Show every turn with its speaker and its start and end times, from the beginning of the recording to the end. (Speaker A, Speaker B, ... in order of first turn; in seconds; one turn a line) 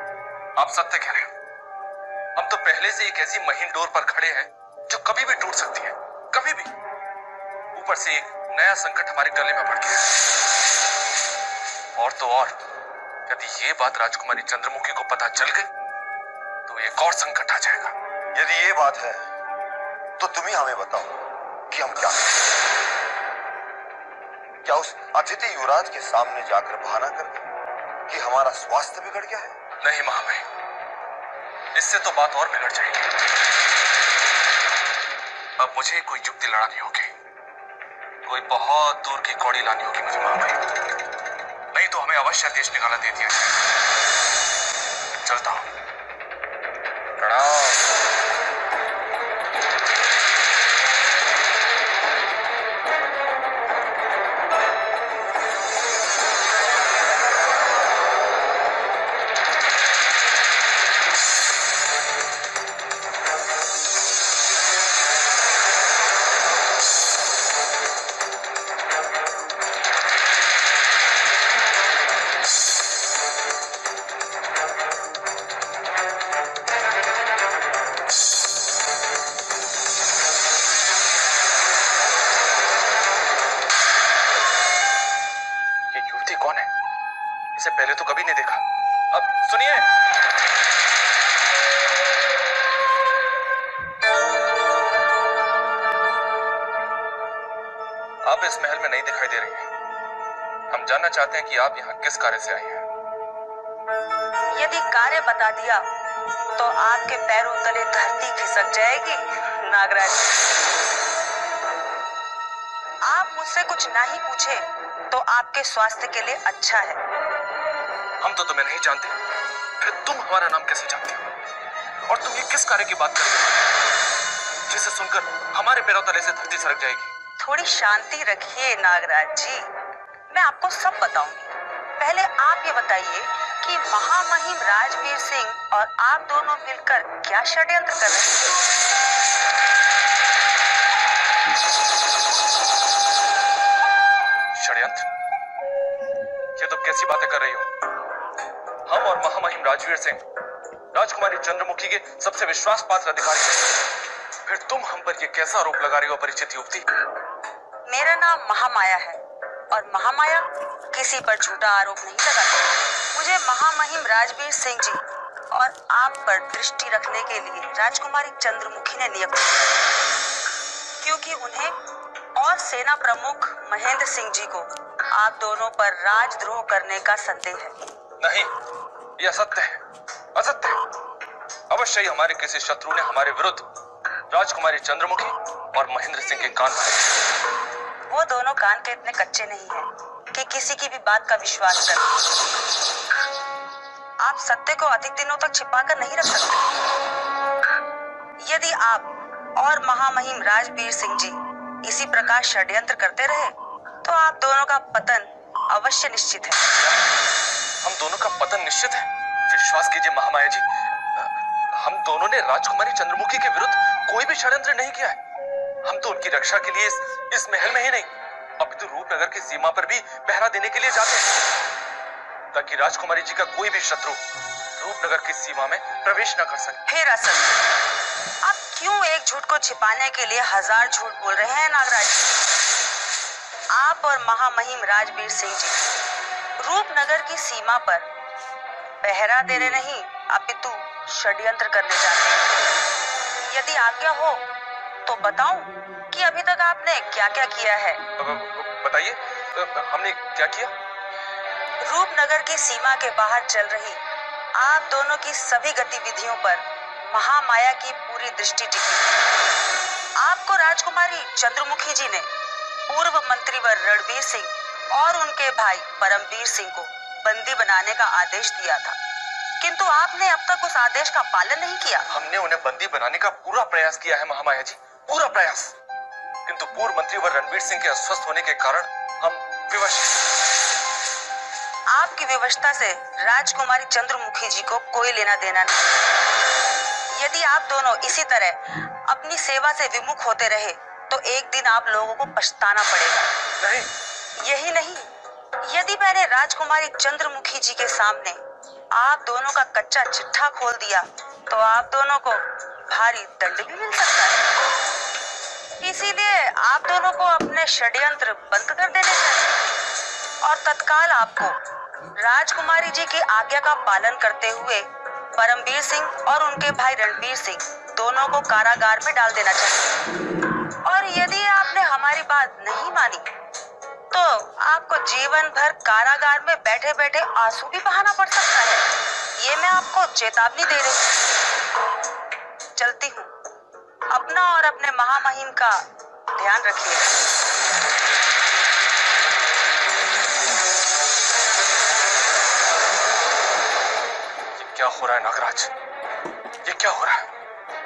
Speaker A: 0.6-1.3
Speaker A: 2.4-6.7
Speaker A: 7.7-10.1
Speaker A: 12.0-12.6
Speaker A: 13.3-15.7
Speaker A: 16.7-17.9
Speaker B: 18.3-19.2
Speaker B: 20.2-21.2
Speaker B: 21.7-22.4
Speaker B: 24.6-27.5
Speaker B: 28.1-29.5
Speaker A: 29.8-30.4
Speaker A: 31.7-33.1
Speaker A: 35.6-37.1
Speaker A: 38.2-40.6
Speaker A: 41.7-43.5
Speaker A: 45.2-45.6
Speaker A: 47.2-47.8
Speaker A: 85.9-86.7
Speaker A: 87.5-89.9
Speaker A: 98.2-99.7
Speaker A: 100.7-102.8
Speaker C: 104.5-105.8
Speaker C: 106.6-110.2
Speaker C: 113.0-117.0
Speaker A: 118.2-119.1
Speaker A: 119.8-121.3
Speaker A: 122.0-123.7
Speaker A: 124.7-127.1
Speaker C: 127.4-129.7
Speaker C: 130.3-138.3
Speaker A: 144.5-145.1
Speaker A: 146.6-147.7
Speaker A: 148.8-150.2
Speaker A: 150.9-153.7
Speaker A: 154.4-156.8
Speaker C: 157.9-159.2
Speaker C: 159.7-169.7
Speaker C: 171.0-171.7
Speaker C: 172.3-177.7
Speaker A: 178.2-178.5
Speaker A: 179.2-179.8
Speaker A: 180.3-180.8
Speaker A: 181.7-183.7
Speaker A: 184.3-187.2
Speaker C: 188.1-192.1
Speaker C: 194.2-196.7
Speaker C: 198.4-206.6
Speaker A: 207.8-215.2
Speaker A: 215.8-221.3
Speaker A: 222.5-224.2
Speaker A: 224.8-226.8
Speaker C: 226.9-227.5
Speaker C: 228.4-232.3
Speaker C: 233.7-235.8
Speaker C: 236.6-238.1
Speaker C: 239.0-242.4
Speaker C: 243.5-244.4
Speaker C: 245.1-248.0
Speaker A: 248.2-250.7
Speaker C: 251.8-254.0
Speaker C: 254.6-259.1
Speaker C: 260.2-262.3
Speaker C: 262.9-268.9
Speaker C: 269.6-272.0
Speaker A: 272.1-275.7
Speaker A: 276.5-280.1
Speaker C: 281.9-286.0
Speaker C: 287.1-293.3
Speaker A: 293.6-293.9
Speaker C: 294.4-295.1
Speaker C: 295.6-298.4
Speaker C: 298.9-304.4
Speaker C: 305.8-309.6
Speaker C: 310.4-311.6
Speaker C: 312.2-319.9
Speaker C: 320.8-323.3
Speaker C: 324.1-328.9
Speaker C: 329.4-331.0
Speaker C: 332.8-333.3
Speaker C: 334.1-335.8
Speaker C: 336.3-337.1
Speaker A: 344.6-345.7
Speaker A: 346.6-347.2